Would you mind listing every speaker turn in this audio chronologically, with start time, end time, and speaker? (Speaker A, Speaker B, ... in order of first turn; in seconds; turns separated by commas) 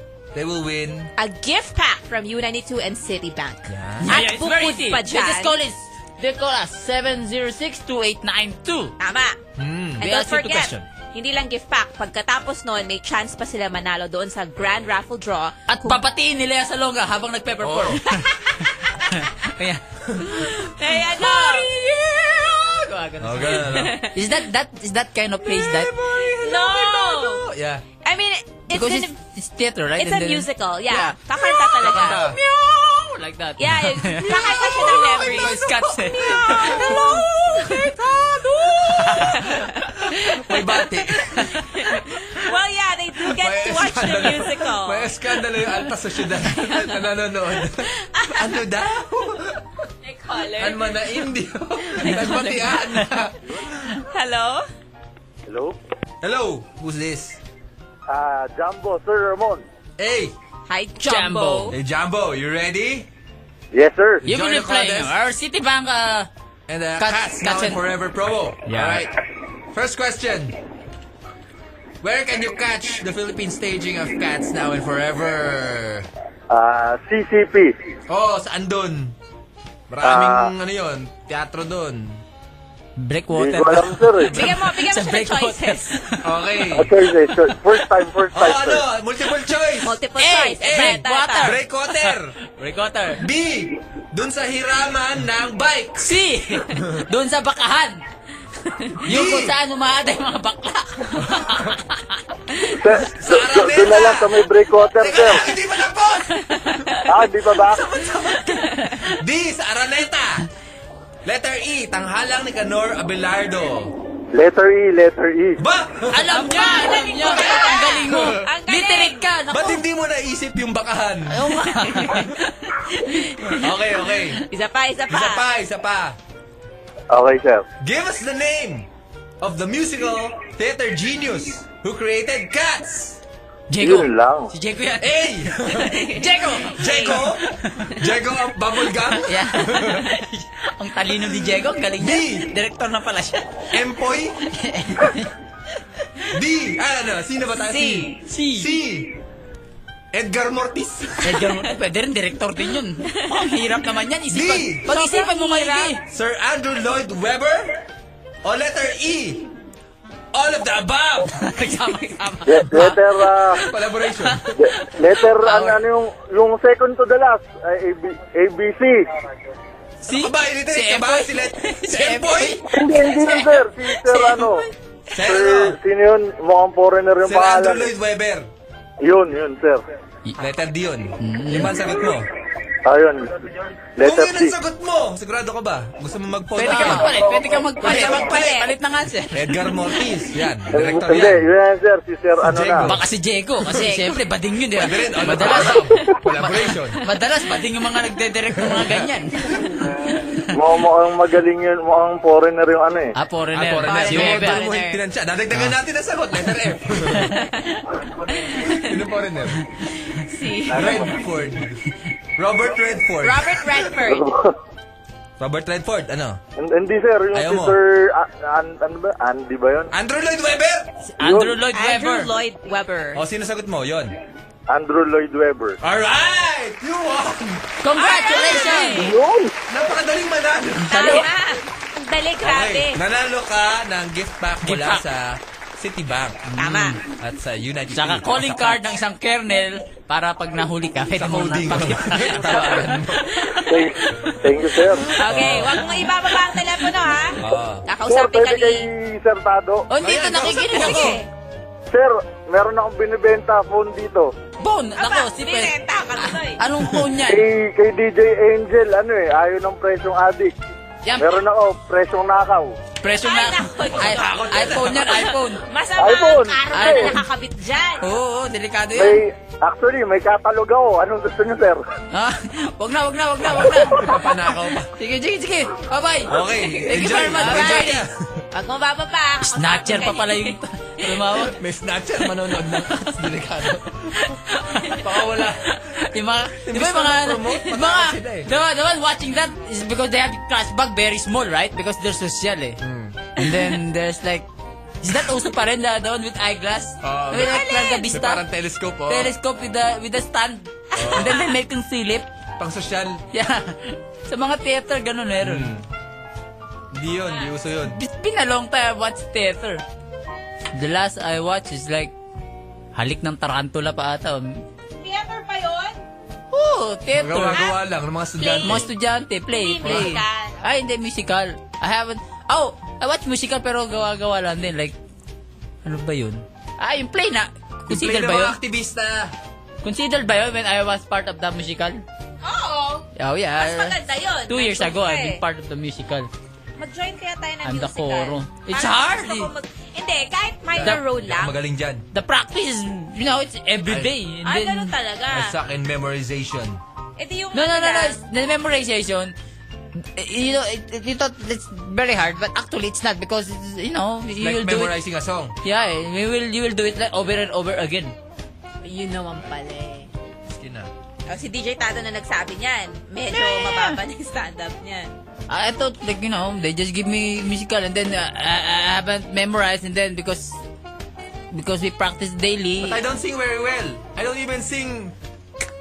Speaker A: 0.3-1.1, Speaker B: 1.2-5.5, Speaker A: 3.7-4.1, Speaker C: 4.0-8.9, Speaker B: 9.0-9.4, Speaker A: 9.6-10.8, Speaker B: 10.0-16.0, Speaker C: 10.0-10.6, Speaker C: 15.7-19.9, Speaker A: 17.6-18.0, Speaker B: 18.4-19.2, Speaker A: 20.1-20.4, Speaker B: 20.2-21.7, Speaker C: 21.1-25.9, Speaker A: 23.2-24.0, Speaker B: 23.5-24.1, Speaker A: 25.5-27.8, Speaker B: 26.2-27.4, Speaker B: 28.0-29.1, Speaker C: 28.7-37.1, Speaker B: 30.0-32.3, Speaker A: 31.8-32.4, Speaker B: 33.6-35.5, Speaker A: 34.2-41.6, Speaker B: 36.2-37.9, Speaker B: 38.7-39.9, Speaker C: 38.8-39.5, Speaker B: 41.4-45.1, Speaker A: 43.3-49.6, Speaker B: 46.5-47.0, Speaker B: 47.6-48.6, Speaker B: 50.0-51.2, Speaker A: 50.6-53.8, Speaker B: 51.8-52.7, Speaker B: 54.0-54.6, Speaker D: 55.5-55.7, Speaker A: 56.2-57.4, Speaker D: 58.1-59.6, Speaker A: 60.0-60.3, Speaker B: 60.7-61.7, Speaker C: 61.0-61.7, Speaker A: 61.7-63.1, Speaker D: 63.7-64.2, Speaker A: 64.2-65.1, Speaker C: 64.2-66.3, Speaker A: 66.7-69.2, Speaker C: 67.0-67.8, Speaker C: 68.6-69.1, Speaker A: 69.7-70.5, Speaker A: 72.0-76.1, Speaker D: 76.5-77.7, Speaker A: 78.1-79.1, Speaker A: 79.9-82.2, Speaker D: 80.0-80.5, Speaker C: 83.0-86.3, Speaker D: 83.3-84.3, Speaker B: 84.3-86.0, Speaker A: 86.2-86.9, Speaker D: 86.7-88.8, Speaker A: 88.3-90.0, Speaker B: 89.8-91.5, Speaker C: 90.2-93.2, Speaker A: 90.6-92.4, Speaker A: 93.2-96.1, Speaker C: 96.0-98.0, Speaker A: 96.7-97.1, Speaker B: 98.6-99.0, Speaker A: 99.0-99.5, Speaker C: 99.0-102.3, Speaker A: 101.2-101.8, Speaker D: 102.7-105.4, Speaker A: 103.1-106.9, Speaker B: 106.4-107.0, Speaker D: 107.0-107.8, Speaker A: 107.5-110.5, Speaker B: 108.5-109.0, Speaker A: 111.2-113.9, Speaker D: 114.3-115.6, Speaker A: 115.6-116.3, Speaker C: 116.1-119.8, Speaker B: 116.3-119.3, Speaker A: 117.2-118.4, Speaker A: 119.5-122.2, Speaker C: 121.3-122.3, Speaker B: 122.0-122.3, Speaker B: 122.9-123.7, Speaker A: 123.5-124.4, Speaker B: 124.5-125.4, Speaker A: 125.1-126.2, Speaker D: 127.1-127.7, Speaker A: 127.8-128.9, Speaker A: 129.4-133.2, Speaker C: 133.7-137.9, Speaker D: 133.8-134.5, Speaker A: 135.0-140.1, Speaker B: 136.8-137.1, Speaker C: 139.2-143.8, Speaker A: 142.0-142.5, Speaker A: 143.7-144.4, Speaker C: 144.5-145.3, Speaker A: 146.3-149.1, Speaker B: 147.7-148.1, Speaker C: 148.2-148.7, Speaker A: 150.1-151.4, Speaker C: 151.2-156.0, Speaker A: 154.3-154.8, Speaker B: 154.9-155.9, Speaker A: 156.0-157.8, Speaker A: 158.4-159.5, Speaker A: 160.3-161.5, Speaker C: 161.3-163.0, Speaker D: 162.5-163.6, Speaker A: 163.5-164.6, Speaker D: 164.6-169.0, Speaker C: 165.3-165.8, Speaker C: 170.0-173.4, Speaker A: 170.1-172.7, Speaker D: 172.7-174.6, Speaker C: 174.0-174.6, Speaker A: 175.1-175.8, Speaker D: 175.2-177.9, Speaker A: 177.2-178.5, Speaker D: 179.0-179.8, Speaker A: 180.4-182.3, Speaker C: 181.2-181.8, Speaker D: 182.8-184.5, Speaker A: 184.0-187.2, Speaker C: 186.5-189.7, Speaker B: 186.7-188.7, Speaker A: 187.8-188.5, Speaker A: 189.3-191.5, Speaker D: 190.7-192.9, Speaker A: 192.4-193.0, Speaker C: 192.8-199.6, Speaker A: 193.6-194.0, Speaker A: 194.8-197.0, Speaker A: 198.6-199.0, Speaker D: 200.5-203.1, Speaker C: 203.2-204.6, Speaker A: 203.5-207.3, Speaker B: 203.8-205.0, Speaker B: 207.3-208.9, Speaker A: 208.5-209.6, Speaker B: 210.0-211.1, Speaker A: 210.7-213.8, Speaker B: 213.2-214.3, Speaker D: 214.0-214.5, Speaker A: 215.4-216.4, Speaker D: 216.6-219.9, Speaker A: 217.3-217.8, Speaker A: 219.9-220.9, Speaker C: 221.0-222.3, Speaker D: 221.2-221.6, Speaker B: 221.7-223.2, Speaker A: 223.1-224.1, Speaker D: 224.7-225.8, Speaker A: 225.8-228.9, Speaker C: 227.8-229.2, Speaker B: 227.9-229.1, Speaker D: 228.9-229.5, Speaker A: 229.7-231.2, Speaker C: 230.9-231.3, Speaker B: 230.9-233.0, Speaker A: 232.4-238.8, Speaker C: 234.6-235.0, Speaker B: 236.6-237.0, Speaker C: 237.9-244.2, Speaker A: 241.1-243.4, Speaker D: 243.7-245.1, Speaker B: 245.2-248.9, Speaker A: 245.2-245.8, Speaker A: 247.4-247.8, Speaker D: 248.1-249.9, Speaker C: 249.9-251.2, Speaker A: 250.0-251.2, Speaker B: 250.4-251.3, Speaker D: 251.9-254.3, Speaker C: 254.6-257.4, Speaker B: 255.0-256.6, Speaker D: 257.2-260.5, Speaker C: 261.0-261.4, Speaker D: 261.2-262.8, Speaker C: 263.0-265.6, Speaker B: 263.1-268.1, Speaker A: 264.0-265.1, Speaker D: 266.0-267.1, Speaker C: 266.7-267.2, Speaker C: 268.0-269.2, Speaker D: 268.9-271.8, Speaker C: 272.1-274.3, Speaker A: 273.5-274.9, Speaker C: 274.9-278.0, Speaker A: 276.3-278.4, Speaker B: 276.9-280.6, Speaker C: 279.4-281.6, Speaker A: 281.4-284.4, Speaker C: 284.7-285.1, Speaker B: 284.8-285.0, Speaker A: 285.0-286.0, Speaker C: 285.9-292.8, Speaker A: 286.6-288.5, Speaker A: 292.8-293.4, Speaker C: 293.4-294.5, Speaker C: 295.0-298.4, Speaker A: 297.0-299.3, Speaker B: 297.4-298.1, Speaker C: 299.1-302.3, Speaker A: 300.9-301.4, Speaker A: 302.6-303.2, Speaker C: 303.3-305.7, Speaker A: 305.4-305.8, Speaker A: 306.9-308.0, Speaker B: 307.2-307.5, Speaker C: 307.9-309.8, Speaker C: 310.7-312.1, Speaker C: 312.9-314.6, Speaker B: 315.0-316.0, Speaker C: 316.5-317.6, Speaker A: 317.1-318.9, Speaker B: 318.4-318.9, Speaker C: 318.6-324.9, Speaker B: 319.5-320.6, Speaker A: 319.8-320.2, Speaker C: 325.8-328.6, Speaker A: 327.9-329.3, Speaker C: 329.8-332.0, Speaker B: 332.4-333.1, Speaker C: 333.1-336.3, Speaker B: 333.6-335.4, Speaker B: 336.8-341.5, Speaker C: 337.6-339.5, Speaker A: 340.7-342.0, Speaker C: 342.1-344.9, Speaker B: 344.4-345.5, Speaker A: 345.3-346.8, Speaker B: 347.2-348.2, Speaker C: 347.5-349.3, Speaker C: 350.0-354.9, Speaker A: 354.4-355.6, Speaker C: 355.6-358.1, Speaker B: 358.8-360.1, Speaker A: 360.5-360.9, Speaker B: 361.2-365.1, Speaker C: 363.3-364.0, Speaker C: 365.5-370.6, Speaker C: 371.5-373.0, Speaker A: 372.8-375.1